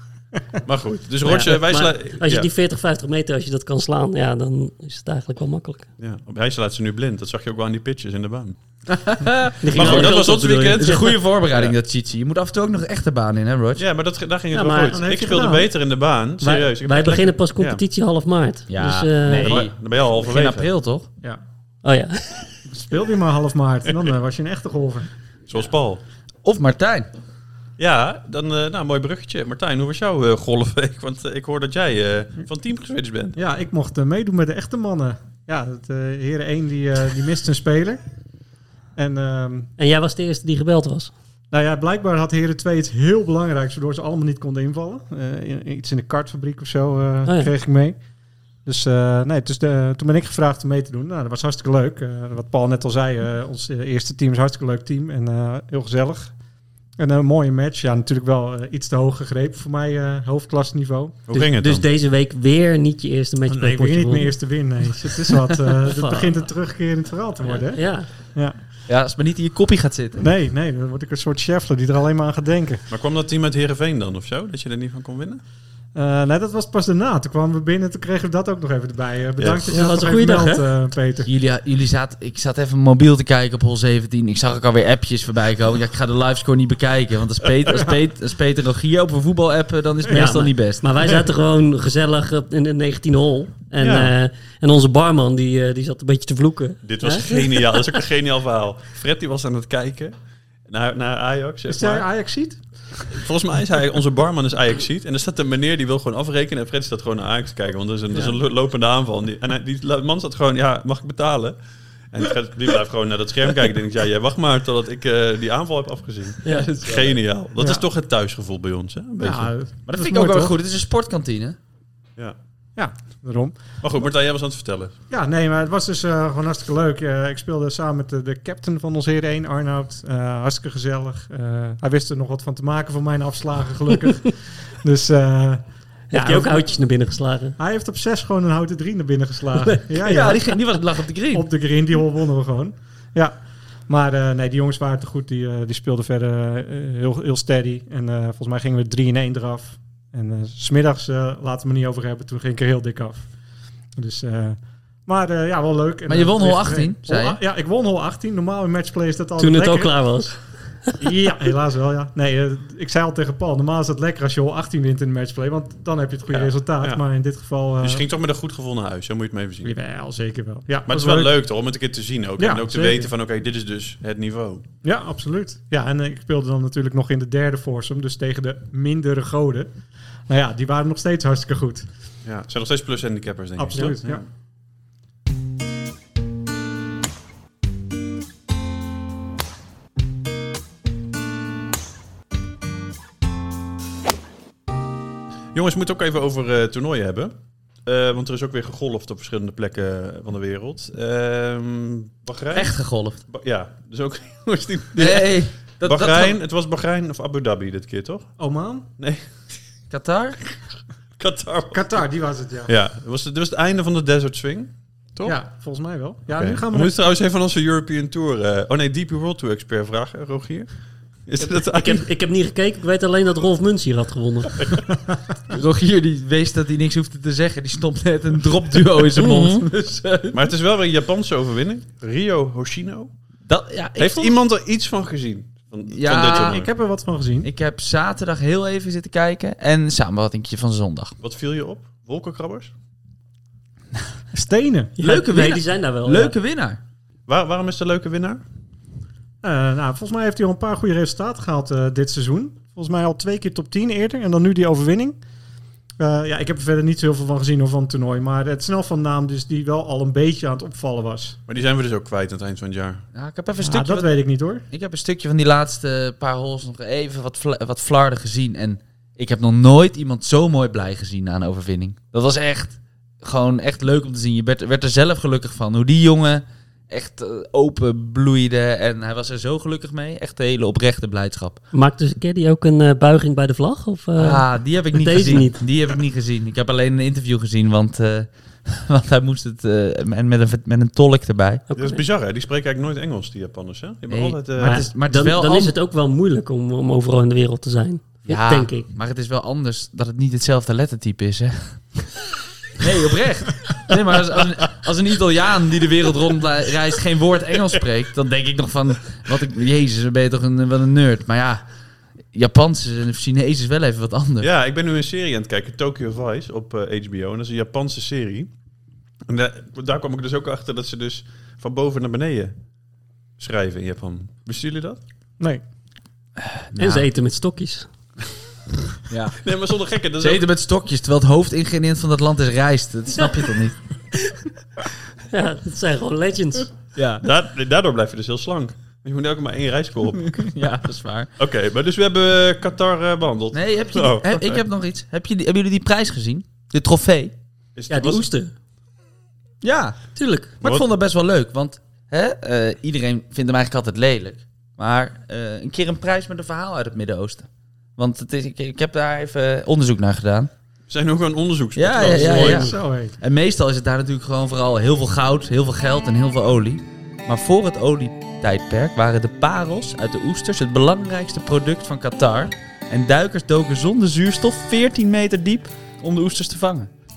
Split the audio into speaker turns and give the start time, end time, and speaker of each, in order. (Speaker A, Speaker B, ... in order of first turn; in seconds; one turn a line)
Speaker A: 0.6-2.5
Speaker B: 1.2-5.9
Speaker A: 6.0-8.6
Speaker C: 8.9-10.2
Speaker B: 9.6-11.2
Speaker A: 9.7-11.7
Speaker C: 10.8-13.8
Speaker A: 13.8-17.8
Speaker B: 14.5-15.0
Speaker D: 14.9-15.7
Speaker B: 16.4-19.6
Speaker C: 18.7-21.1
Speaker A: 19.3-20.7
Speaker B: 21.8-22.5
Speaker D: 22.7-25.1
Speaker A: 25.5-26.0
Speaker C: 26.4-27.1
Speaker A: 27.8-33.4
Speaker D: 33.4-38.0
Speaker D: 39.0-39.7
Speaker B: 39.8-41.1
Speaker D: 41.5-48.0
Speaker B: 47.2-47.5
Speaker D: 48.6-56.3
Speaker D: 57.0-61.2
Speaker A: 61.3-61.9
Speaker B: 61.3-64.3
Speaker D: 63.5-68.5
Speaker B: 65.7-66.4
Speaker B: 67.4-68.1
Speaker C: 68.9-70.2
Speaker D: 70.2-72.8
Speaker A: 72.9-75.4
Speaker D: 75.9-81.3
Speaker A: 79.4-79.7
Speaker B: 79.7-80.7
Speaker C: 81.2-90.9
Speaker B: 90.1-98.0
Speaker A: 93.8-94.1
Speaker A: 96.8-100.1
Speaker A: 100.7-102.1
Speaker D: 101.7-102.6
Speaker A: 103.1-111.6
Speaker A: 112.1-119.5
Speaker C: 116.5-117.2
Speaker D: 117.6-117.8
Speaker D: 119.2-120.5
Speaker C: 119.8-121.6
Speaker D: 122.8-123.6
Speaker A: 123.8-124.9
Speaker D: 125.1-136.7
Speaker B: 136.1-137.6
Speaker D: 137.6-140.5
Speaker C: 140.0-141.5
Speaker D: 141.3-143.3
Speaker D: 143.9-153.2
Speaker D: 153.9-160.0
Speaker C: 156.1-157.4
Speaker B: 159.4-160.9
Speaker D: 161.0-168.0
Speaker A: 166.3-167.0
Speaker A: 167.8-169.7
Speaker D: 169.6-171.3
Speaker A: 170.9-174.6
Speaker D: 172.4-173.1
Speaker D: 174.8-179.7
Speaker D: 180.3-181.8
Speaker A: 182.2-184.2
Speaker D: 183.6-184.2
Speaker A: 195.5-197.3
Speaker A: 197.8-202.7
Speaker C: 202.5-203.2
Speaker A: 203.3-208.3
Speaker C: 204.9-206.3
Speaker D: 208.4-208.9
Speaker A: 209.0-209.3
Speaker C: 209.9-210.4
Speaker A: 211.2-212.0
Speaker D: 211.7-212.7
Speaker A: 212.7-215.4
Speaker D: 215.2-216.9
Speaker A: 216.3-220.7
Speaker A: 221.2-222.1
Speaker B: 221.4-224.7
Speaker C: 225.5-230.4
Speaker A: 229.2-229.7
Speaker B: 229.2-229.4
Speaker A: 230.3-233.1
Speaker C: 233.5-234.3
Speaker A: 234.0-236.7
Speaker C: 235.9-236.6
Speaker D: 236.2-237.5
Speaker C: 237.4-241.1
Speaker A: 241.2-242.7
Speaker D: 244.3-244.9
Speaker B: 245.0-246.3
Speaker C: 245.0-246.8
Speaker A: 247.3-248.4
Speaker D: 249.4-255.2
Speaker D: 256.0-261.4
Speaker A: 261.5-263.0
Speaker C: 263.1-264.1
Speaker D: 263.6-264.6
Speaker C: 264.7-281.6
Speaker B: 281.7-285.6
Speaker C: 284.1-291.6
Speaker B: 291.7-292.0
Speaker A: 291.7-294.8
Speaker C: 294.1-295.7
Speaker B: 294.6-298.9
Speaker C: 298.3-302.1
Speaker C: 302.8-311.6
Speaker C: 312.3-314.5
Speaker A: 314.4-318.5
Speaker A: 319.3-322.5
Speaker A: 323.4-325.0
Speaker C: 326.4-327.1
Speaker B: 326.8-327.9
Speaker C: 329.1-329.4
Speaker A: 329.4-330.5
Speaker C: 330.2-333.8
Speaker B: 335.3-336.7
Speaker C: 336.9-337.2
Speaker A: 337.2-340.5
Speaker C: 340.2-341.3
Speaker A: 341.4-344.6
Speaker C: 343.5-347.3
Speaker A: 347.8-348.3
Speaker B: 347.9-348.5
Speaker C: 349.6-350.0
Speaker B: 350.1-350.5
Speaker C: 350.6-360.5
Speaker A: 360.9-362.7
Speaker C: 361.8-376.9
Speaker B: 362.0-362.7
Speaker D: 362.3-363.1